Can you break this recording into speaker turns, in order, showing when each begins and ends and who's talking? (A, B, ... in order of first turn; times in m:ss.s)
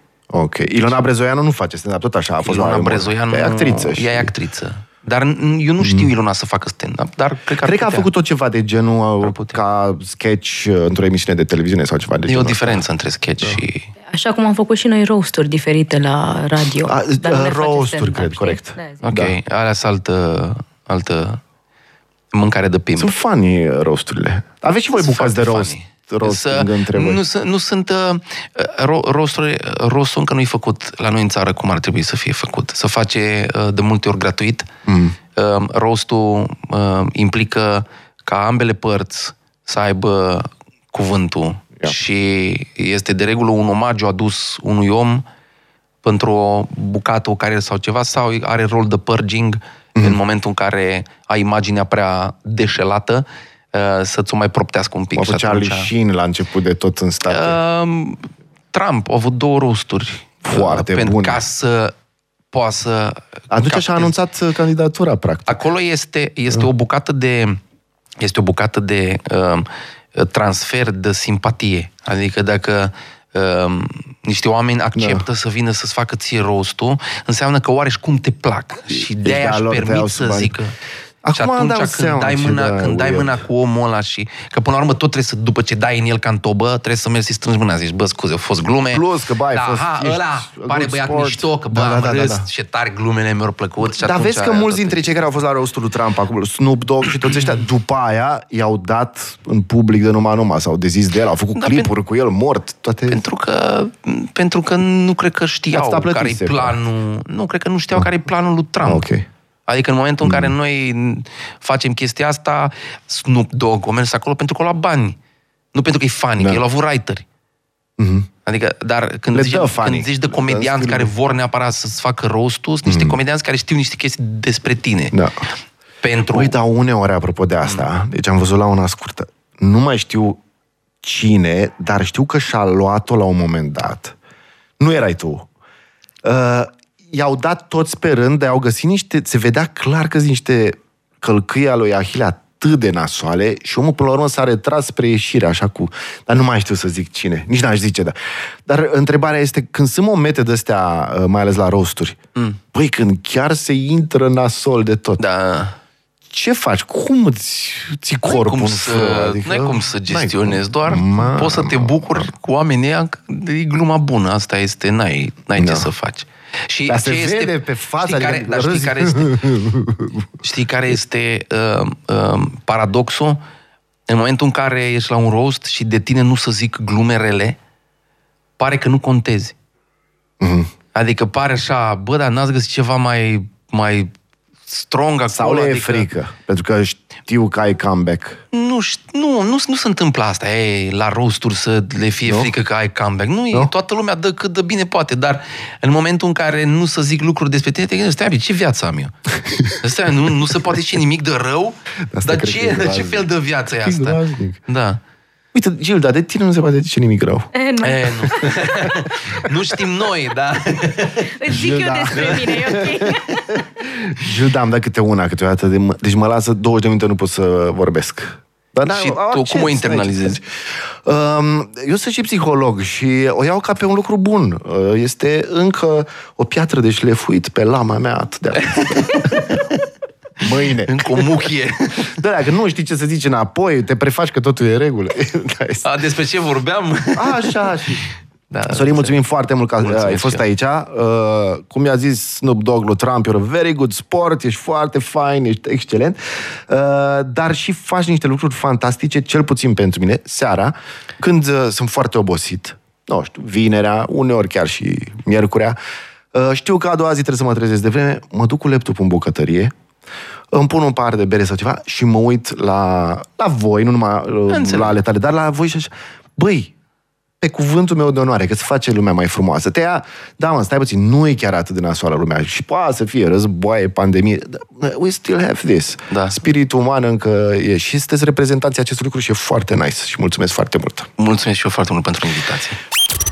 0:00.3-0:04.3 A
0:02.4-0:08.1 B
0:05.8-0:06.1 A
0:07.6-0:12.8 A
0:09.2-0:09.6 B
0:12.3-0:13.9 B
0:14.1-0:19.0 C
0:16.8-0:19.4 A
0:19.0-0:21.4 B
0:22.3-0:23.2 B
0:23.0-0:27.2 A
0:24.9-0:34.7 B
0:34.9-0:35.2 A
0:35.4-0:45.2 B
0:46.0-0:55.9 B
0:55.2-0:57.6 A
0:57.3-1:01.9 B
1:00.4-1:01.4 A
1:02.5-1:04.1 B
1:03.5-1:05.6 A
1:05.5-1:07.6 B
1:08.2-1:20.8 B
1:15.0-1:15.3 A
1:18.9-1:20.6 A
1:21.2-1:23.4 A
1:21.4-1:35.1 B
1:28.9-1:32.5 A
1:33.8-1:43.2 A
1:41.6-1:41.9 B
1:43.1-1:49.1 B
1:45.7-1:46.8 A
1:48.8-1:49.3 A
1:49.7-1:55.2 B
1:50.2-1:50.5 A
1:55.7-1:57.2 B
1:58.0-1:58.3 A
1:58.5-2:05.2 B
1:59.3-2:01.1 A
2:02.9-2:03.2 A
2:06.0-2:06.6 B
2:06.3-2:10.4 A
2:11.0-2:14.2 A
2:14.8-2:15.5 A
2:16.2-2:32.2 A
2:32.7-2:35.2 A
2:35.2-2:35.8 B
2:36.3-2:42.1 A
2:38.2-2:49.4 B
2:45.6-2:45.9 A
2:46.9-2:50.3 A
2:50.4-2:53.4 B
2:54.1-2:57.6 B
2:58.6-2:59.6 B
3:00.4-3:00.7 A
3:01.0-3:04.1 B
3:04.7-3:06.1 B
3:05.3-3:08.4 A
3:08.5-3:19.1 B
3:12.3-3:12.5 A
3:19.4-3:19.8 A
3:19.8-3:25.0 B
3:22.1-3:24.6 A
3:25.5-3:27.5 A
3:27.6-3:28.6 C
3:27.8-3:33.2 B
3:31.4-3:33.2 C
3:31.5-3:33.2 A
3:33.8-3:40.4 A
3:38.9-3:40.4 B
3:41.0-3:49.6 A
3:48.6-3:49.8 B
3:50.4-3:51.2 A
3:50.8-3:52.1 B
3:52.1-3:55.8 A
3:55.8-3:57.7 B
3:57.2-3:58.0 A
3:58.5-3:59.2 B
3:58.7-4:15.8 A
3:59.8-4:00.4 B
4:16.3-4:19.7 A
4:20.5-4:26.7 A
4:24.5-4:25.0 B
4:27.4-4:41.1 A
4:36.1-4:36.4 B
4:41.2-4:42.8 B